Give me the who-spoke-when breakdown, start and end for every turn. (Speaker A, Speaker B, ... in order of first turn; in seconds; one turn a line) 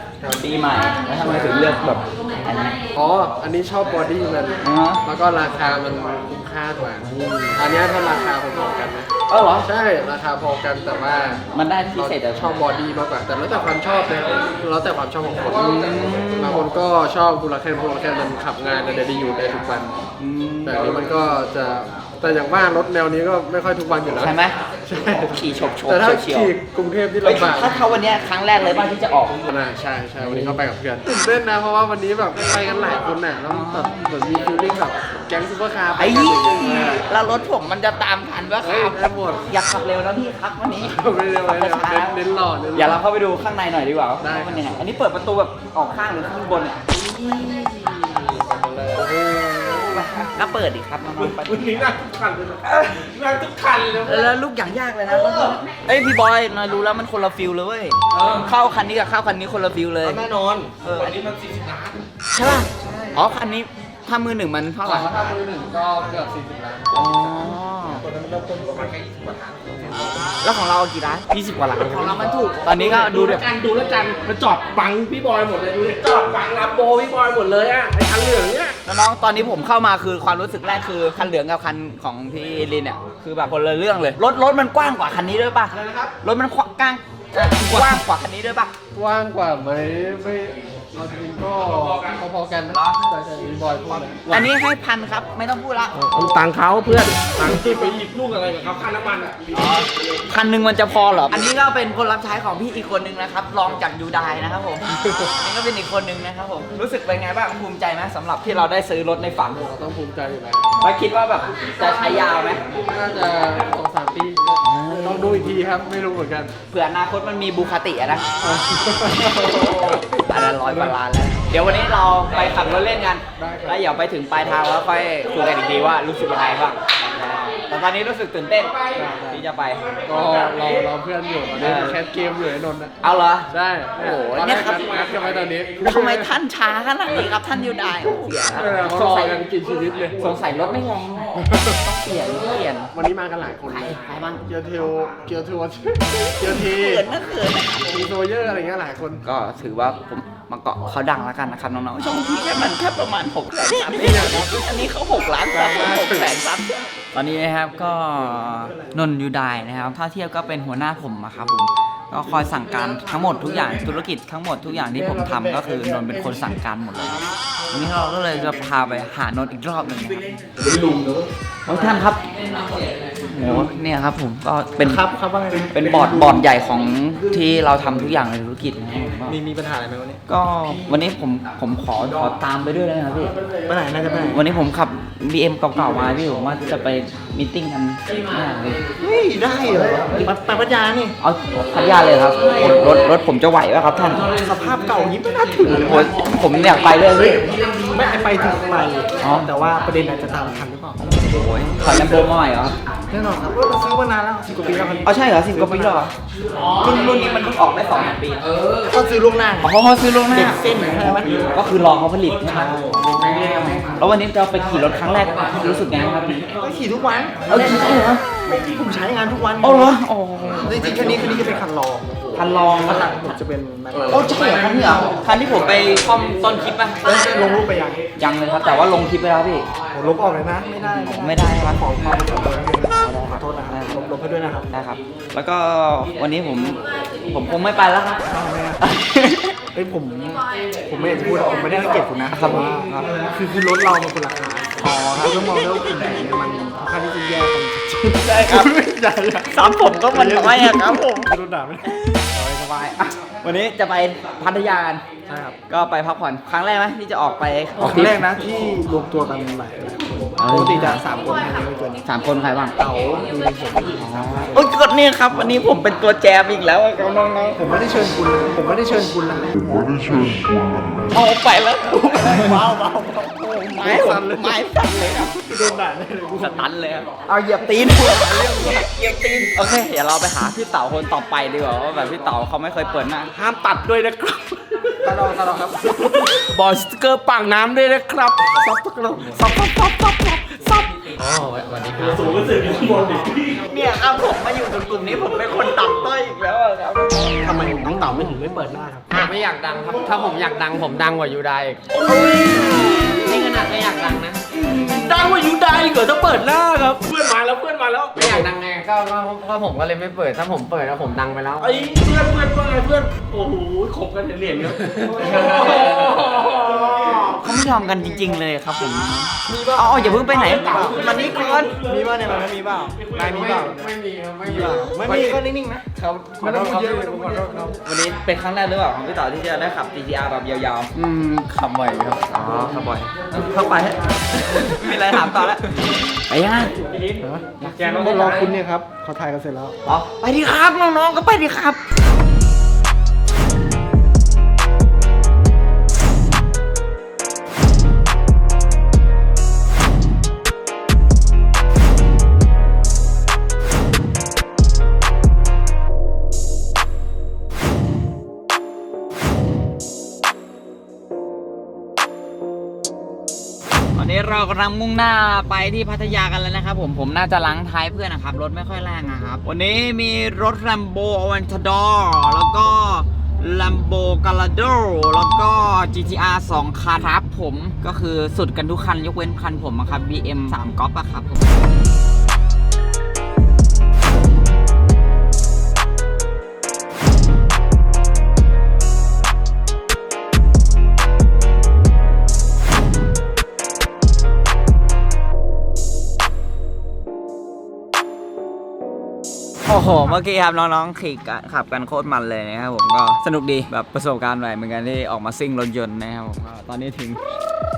Speaker A: 0.2-0.5
Speaker B: 0.4-2.8
Speaker A: 1.2-1.6
Speaker A: 3.0-9.1
Speaker B: 4.6-5.0
Speaker B: 9.3-9.7
Speaker A: 9.6-11.4
Speaker B: 11.5-12.8
Speaker A: 11.9-19.9
Speaker B: 15.6-16.7
Speaker B: 20.2-21.1
Speaker A: 20.6-27.9
Speaker B: 24.2-24.6
Speaker B: 25.1-26.5
Speaker B: 27.2-29.4
Speaker A: 29.5-37.1
Speaker B: 30.2-31.3
Speaker B: 33.5-34.0
Speaker B: 36.0-42.2
Speaker A: 38.6-39.5
Speaker A: 40.8-43.0
Speaker B: 42.7-47.0
Speaker A: 44.2-44.8
Speaker C: 47.0-47.5
Speaker A: 48.3-49.1
Speaker B: 49.0-51.9
Speaker C: 51.1-54.4
Speaker B: 52.6-52.9
Speaker B: 54.0-60.2
Speaker C: 55.1-55.6
Speaker C: 60.0-62.0
Speaker B: 60.8-61.2
Speaker B: 62.3-65.2
Speaker D: 62.8-63.1
Speaker A: 64.8-67.2
Speaker B: 66.9-68.0
Speaker C: 68.0-70.4
Speaker B: 70.4-73.5
Speaker C: 71.3-78.8
Speaker B: 78.8-88.7
Speaker C: 87.6-88.0
Speaker A: 88.9-94.2
Speaker B: 92.7-93.0
Speaker C: 94.2-94.5
Speaker B: 94.3-96.0
Speaker C: 95.9-99.8
Speaker B: 99.5-109.7
Speaker A: 109.6-110.8
Speaker B: 110.8-112.6
Speaker A: 112.7-116.5
Speaker B: 114.6-115.6
Speaker B: 116.7-118.2
Speaker A: 118.4-120.0
Speaker B: 119.4-129.8
Speaker A: 120.6-121.0
Speaker A: 123.4-123.8
Speaker A: 128.9-129.4
Speaker C: 129.9-130.5
Speaker A: 130.1-132.9
Speaker B: 131.6-132.0
Speaker B: 133.0-134.9
Speaker A: 133.5-136.3
Speaker C: 134.7-135.5
Speaker B: 135.8-139.4
Speaker A: 138.6-140.3
Speaker C: 139.8-140.5
Speaker B: 140.2-142.9
Speaker A: 142.9-147.1
Speaker B: 143.6-144.4
Speaker B: 146.5-148.0
Speaker A: 147.9-149.2
Speaker B: 149.2-170.4
Speaker A: 154.0-154.5
Speaker A: 155.5-156.4
Speaker B: 171.7-172.3
Speaker B: 173.1-175.1
Speaker D: 174.8-176.5
Speaker B: 175.7-179.4
Speaker D: 179.2-180.2
Speaker B: 180.3-183.3
Speaker D: 183.7-184.4
Speaker B: 184.2-188.8
Speaker D: 189.0-191.2
Speaker B: 191.2-194.3
Speaker D: 194.3-196.2
Speaker B: 195.7-197.6
Speaker E: 197.6-198.3
Speaker D: 197.9-201.1
Speaker C: 198.8-199.2
Speaker B: 199.2-199.5
Speaker B: 201.0-202.8
Speaker D: 203.1-206.0
Speaker B: 205.0-206.1
Speaker E: 206.6-206.9
Speaker B: 206.7-208.5
Speaker E: 208.5-208.9
Speaker D: 208.9-209.7
Speaker B: 209.6-212.9
Speaker D: 210.3-211.5
Speaker A: 211.0-211.6
Speaker D: 212.7-213.1
Speaker E: 212.8-213.9
Speaker B: 213.6-216.5
Speaker E: 215.2-215.6
Speaker D: 216.5-219.9
Speaker B: 217.5-218.3
Speaker B: 219.6-221.1
Speaker D: 220.5-222.1
Speaker A: 220.8-222.9
Speaker B: 222.3-223.4
Speaker D: 222.9-224.6
Speaker B: 224.1-227.2
Speaker A: 224.3-225.6
Speaker D: 227.0-228.0
Speaker B: 228.2-229.7
Speaker D: 229.9-234.7
Speaker B: 230.8-234.1
Speaker B: 234.7-238.3
Speaker D: 238.2-238.8
Speaker B: 238.8-239.6
Speaker D: 239.7-243.7
Speaker E: 241.4-241.7
Speaker B: 242.2-243.2
Speaker C: 243.4-244.7
Speaker B: 244.8-245.6
Speaker D: 245.0-252.9
Speaker B: 248.2-248.7
Speaker B: 249.4-251.3
Speaker B: 251.8-255.0
Speaker D: 255.3-255.6
Speaker B: 255.7-258.2
Speaker D: 257.8-262.0
Speaker B: 260.4-261.1
Speaker B: 262.0-262.8
Speaker D: 262.8-264.7
Speaker B: 263.9-267.6
Speaker D: 267.6-270.9
Speaker B: 271.1-272.7
Speaker D: 271.9-274.6
Speaker B: 273.6-275.4
Speaker D: 275.3-276.7
Speaker B: 276.3-283.3
Speaker C: 283.3-291.1
Speaker A: 285.2-285.7
Speaker E: 291.2-292.5
Speaker C: 291.9-293.7
Speaker B: 293.6-297.6
Speaker C: 297.4-299.2
Speaker D: 297.6-298.0
Speaker E: 299.1-301.9
Speaker C: 301.9-303.6
Speaker B: 302.5-303.1
Speaker E: 303.2-304.4
Speaker C: 304.6-308.5
Speaker B: 304.8-305.1
Speaker E: 308.2-311.7
Speaker C: 311.6-317.5
Speaker A: 315.2-316.1
Speaker B: 317.3-321.7
Speaker A: 319.5-321.1
Speaker D: 319.8-323.9
Speaker C: 320.3-323.7
Speaker A: 323.2-325.4
Speaker D: 324.4-327.8
Speaker B: 324.5-324.9
Speaker E: 326.0-326.4
Speaker A: 326.3-327.6
Speaker B: 327.8-336.7
Speaker C: 336.9-338.3
Speaker D: 337.2-339.8
Speaker B: 337.6-338.6
Speaker B: 339.8-341.8
Speaker B: 363.9-381.6
Speaker B: 399.7-407.2